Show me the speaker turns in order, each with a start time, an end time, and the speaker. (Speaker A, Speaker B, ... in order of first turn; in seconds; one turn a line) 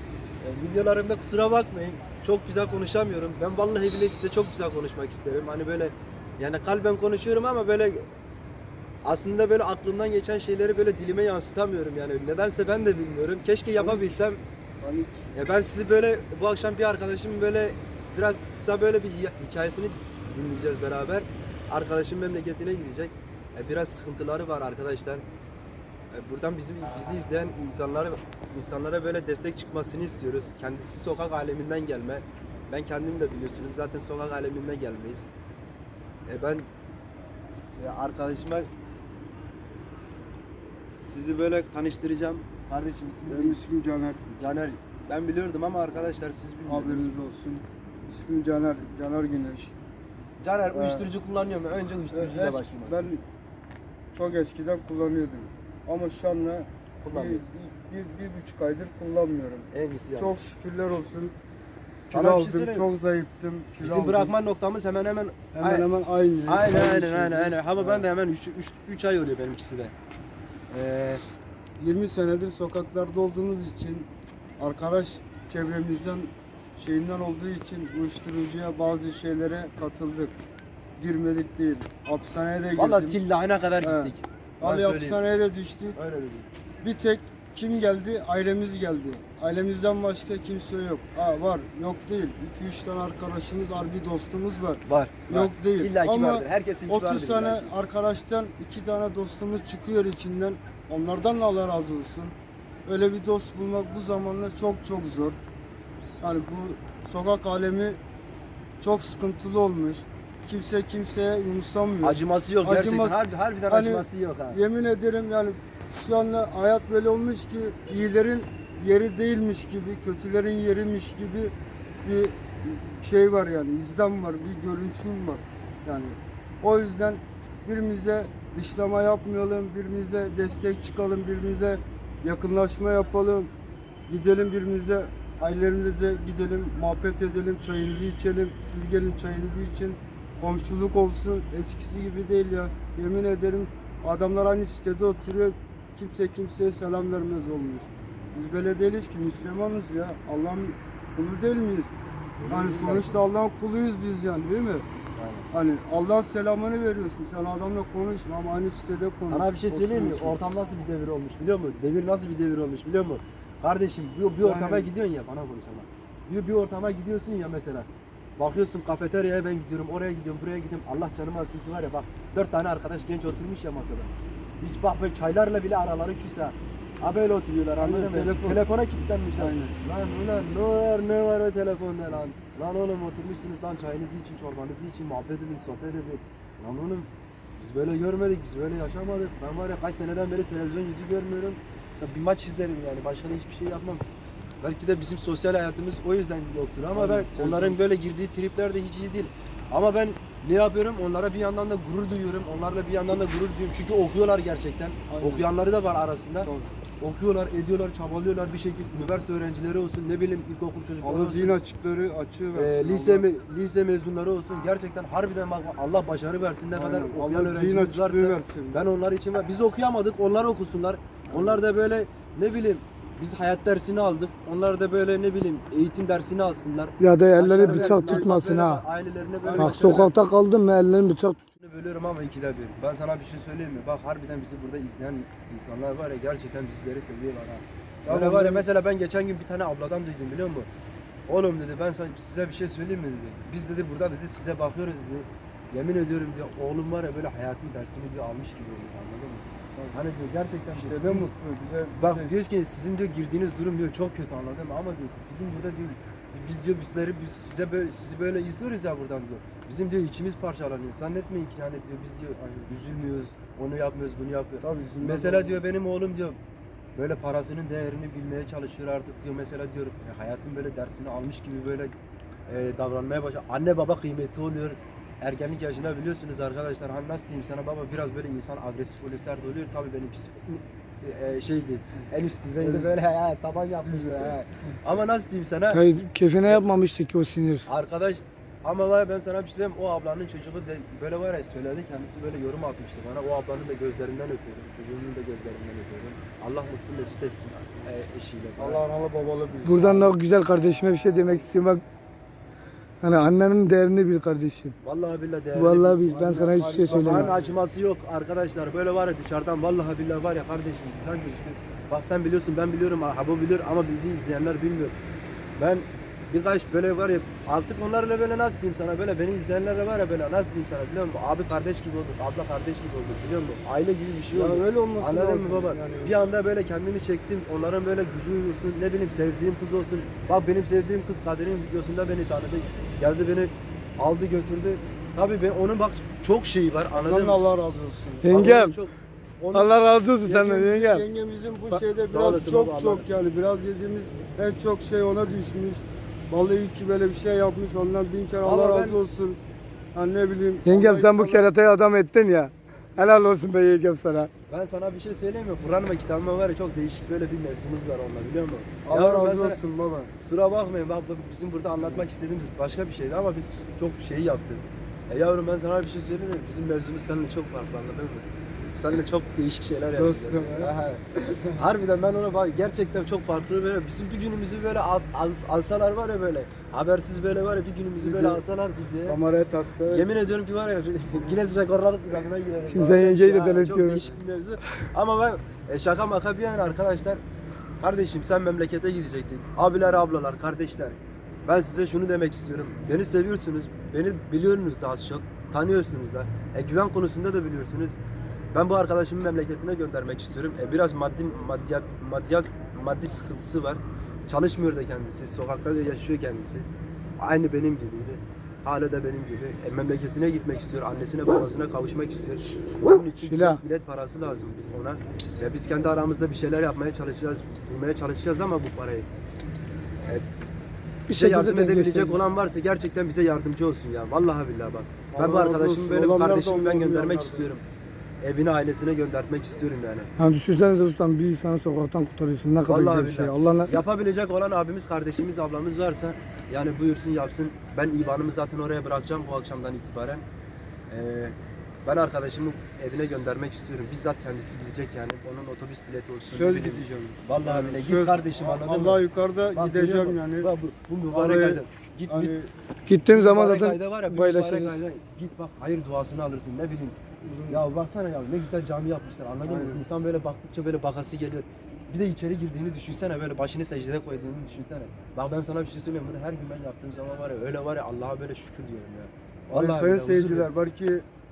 Speaker A: 0.4-8.1
Speaker A: 9.0-14.4
Speaker B: 13.8-14.1
Speaker B: 14.8-15.2
Speaker A: 15.3-25.2
Speaker A: 26.1-35.3
Speaker A: 36.3-36.7
Speaker A: 37.7-38.7
Speaker A: 40.9-43.6
Speaker B: 43.3-44.3
Speaker A: 44.4-47.1
Speaker B: 46.7-49.7
Speaker A: 50.4-53.1
Speaker B: 50.7-51.1
Speaker B: 52.1-53.2
Speaker B: 54.1-61.3
Speaker A: 57.0-57.5
Speaker A: 59.7-60.4
Speaker B: 62.1-64.3
Speaker A: 62.1-62.9
Speaker A: 63.8-65.8
Speaker B: 65.5-68.1
Speaker A: 66.5-69.9
Speaker A: 70.7-71.2
Speaker B: 71.8-80.4
Speaker B: 81.0-83.2
Speaker A: 82.8-85.2
Speaker B: 83.8-86.0
Speaker A: 85.9-86.5
Speaker B: 86.8-102.3
Speaker A: 94.8-97.7
Speaker B: 102.8-105.4
Speaker B: 106.2-108.0
Speaker B: 108.8-133.5
Speaker A: 112.0-114.6
Speaker B: 134.1-151.9
Speaker A: 152.4-153.2
Speaker B: 152.5-154.8
Speaker A: 155.2-155.5
Speaker B: 155.5-160.4
Speaker A: 159.3-194.0
Speaker B: 164.4-164.9
Speaker B: 177.8-178.6
Speaker B: 179.4-179.8
Speaker A: 194.6-206.5
Speaker B: 196.9-197.8
Speaker B: 205.1-205.5
Speaker B: 206.4-206.8
Speaker A: 207.0-211.6
Speaker B: 211.0-213.3
Speaker A: 212.5-230.2
Speaker B: 216.7-218.8
Speaker B: 221.3-221.6
Speaker C: 227.0-228.8
Speaker B: 227.5-228.3
Speaker B: 229.4-230.1
Speaker C: 229.5-231.4
Speaker A: 231.6-240.7
Speaker B: 238.0-238.6
Speaker A: 241.3-251.3
Speaker B: 250.7-252.3
Speaker A: 252.0-266.4
Speaker B: 262.4-262.7
Speaker B: 264.6-265.6
Speaker A: 266.9-271.9
Speaker A: 272.5-285.8
Speaker B: 282.6-282.9
Speaker B: 283.8-284.4
Speaker C: 285.7-287.6
Speaker A: 287.6-298.8
Speaker B: 298.6-300.0
Speaker C: 299.6-301.8
Speaker C: 303.0-304.7
Speaker A: 304.8-306.2
Speaker C: 305.5-307.3
Speaker B: 306.1-307.5
Speaker A: 306.8-314.9
Speaker A: 315.6-337.4
Speaker B: 324.3-326.1
Speaker B: 337.0-338.4
Speaker C: 338.2-338.8
Speaker A: 338.3-338.9
Speaker B: 339.4-349.4
Speaker C: 339.5-341.0
Speaker A: 342.1-343.1
Speaker A: 348.4-349.0
Speaker B: 349.9-351.5
Speaker C: 350.6-354.3
Speaker A: 354.5-359.6
Speaker B: 358.8-360.1
Speaker A: 360.2-379.2
Speaker B: 369.9-371.6
Speaker B: 378.0-378.4
Speaker B: 379.0-380.1
Speaker A: 379.9-387.2
Speaker C: 382.7-384.1
Speaker A: 387.8-398.0
Speaker A: 398.5-406.7
Speaker A: 407.2-419.1
Speaker C: 413.2-413.6
Speaker C: 421.1-422.2
Speaker A: 421.1-427.6
Speaker B: 425.1-427.5
Speaker A: 428.2-430.1
Speaker C: 430.2-433.7
Speaker A: 432.7-440.2
Speaker A: 440.9-449.0
Speaker B: 446.3-450.5
Speaker A: 449.5-452.3
Speaker B: 451.1-452.5
Speaker C: 452.9-454.7
Speaker A: 453.0-456.9
Speaker B: 457.2-457.6
Speaker A: 457.5-470.5
Speaker B: 459.4-459.8
Speaker B: 469.5-471.0